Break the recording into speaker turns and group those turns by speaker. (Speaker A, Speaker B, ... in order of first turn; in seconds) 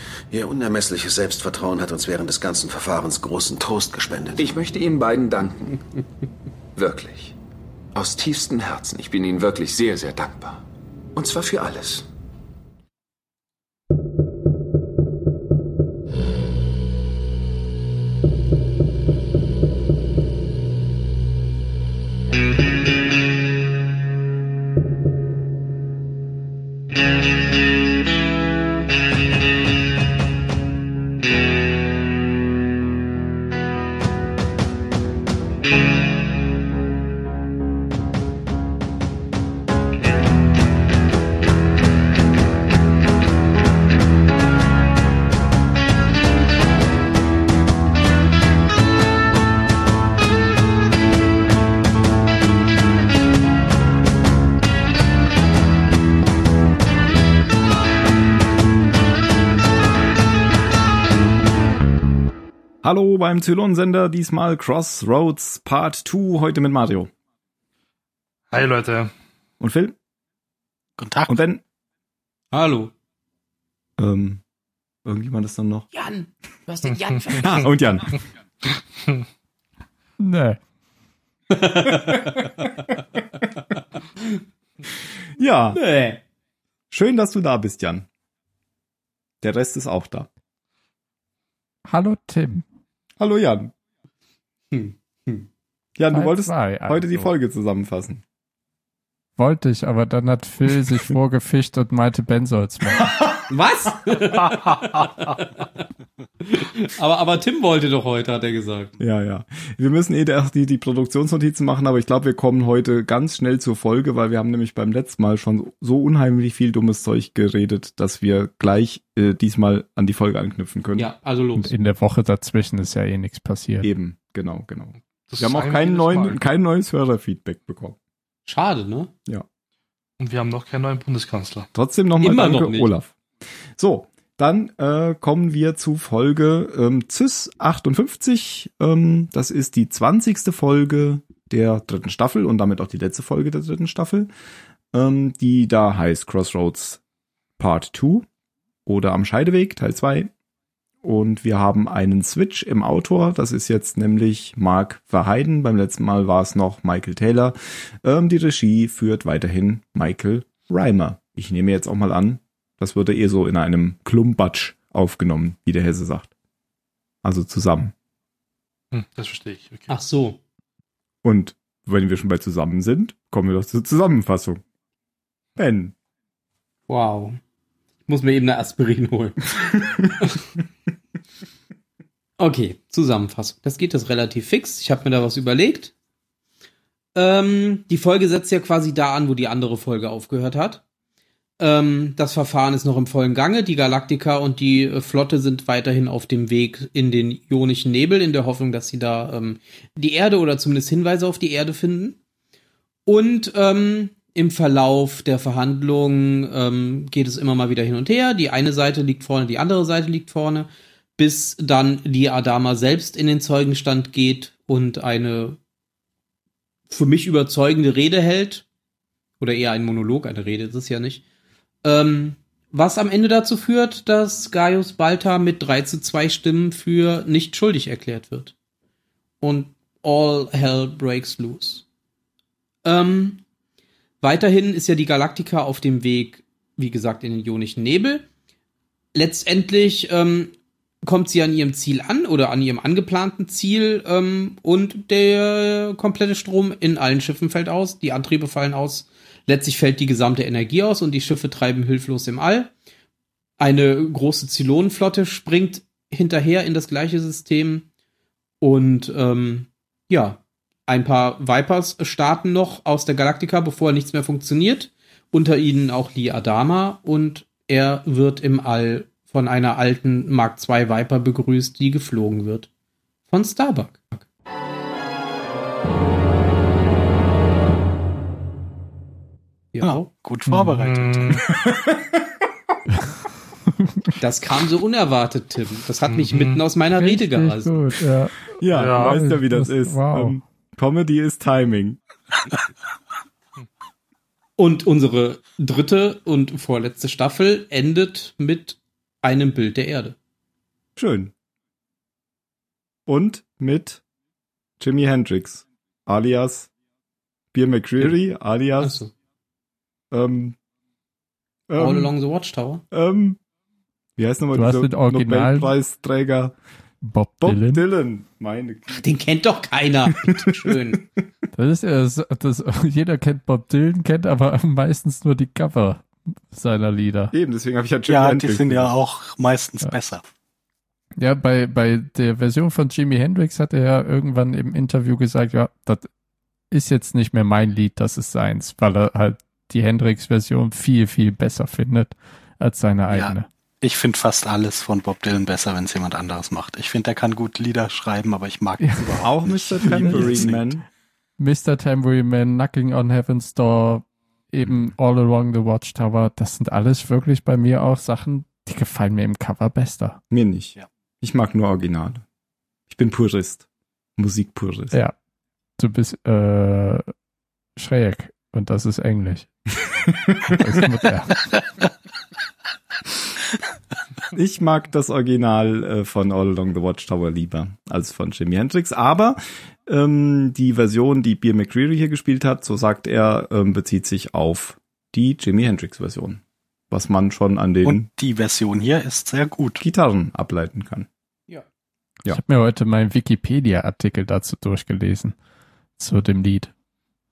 Speaker A: 0.3-4.3
Speaker B: 4.3-5.8, 6.8-7.3, 8.0-10.6, 11.2-12.1
Speaker C: 62.8-67.1, 69.6-70.0, 71.3-71.6, 74.0-74.4, 75.0-75.9, 77.4-78.1, 85.4-85.8, 86.9-88.1, 89.4-90.3, 93.2-93.7, 96.0-98.2, 109.0-121.1, 123.8-128.0, 131.7-133.1, 133.8-144.3, 144.9-147.0, 147.6-148.3, 148.9-150.3, 151.0-166.3, 167.2-167.9, 171.2-174.6, 175.6-175.9, 281.5-282.2, 288.6-292.0, 301.0-301.3, 303.1-304.0, 304.8-306.7, 307.5-309.0, 310.1-310.6, 311.7-312.1, 312.9-313.4, 314.2-316.6, 317.4-319.1, 320.3-320.8, 327.3-328.9, 349.2-350.9, 360.3-362.2, 362.9-363.6, 364.2-365.0, 370.3-370.6, 374.3-388.1, 389.8-391.1
Speaker D: 68.5-69.1, 125.3-126.4, 130.2-131.7, 168.9-169.9, 280.8-281.4, 286.1-286.6, 288.8-289.2
Speaker E: 71.0-71.3, 279.8-281.5, 328.1-330.2, 343.1-350.7, 387.8-389.8
Speaker F: 72.5-72.9, 75.9-77.6, 81.5-82.9, 85.7-86.2, 94.7-95.5, 103.4-105.8, 106.4-108.9, 121.0-121.7, 128.5-129.1, 132.2-132.9, 169.9-170.4, 176.9-177.4, 178.1-180.5, 182.4-185.9, 187.2-190.8, 191.6-202.2, 203.1-215.6, 216.9-218.7, 219.4-221.2, 221.8-228.5, 229.4-231.8, 232.8-233.4, 234.2-238.3, 239.1-240.5, 241.1-252.7, 253.6-257.9, 258.6-272.7, 273.3-274.2, 279.7-280.1, 284.2-287.7, 294.6-300.2, 308.8-309.1, 311.8-312.8, 318.9-321.0
Speaker G: 80.2-80.6, 91.9-92.6, 96.1-97.3, 99.4-103.1, 121.6-123.9, 280.5-280.8, 287.0-290.4, 314.5-315.7, 317.0-317.9, 321.5-327.3, 331.2-336.1, 336.7-343.5, 348.8-350.6, 351.4-360.2, 365.8-367.1, 367.8-369.5, 370.4-371.6, 392.3-395.4, 396.0-396.7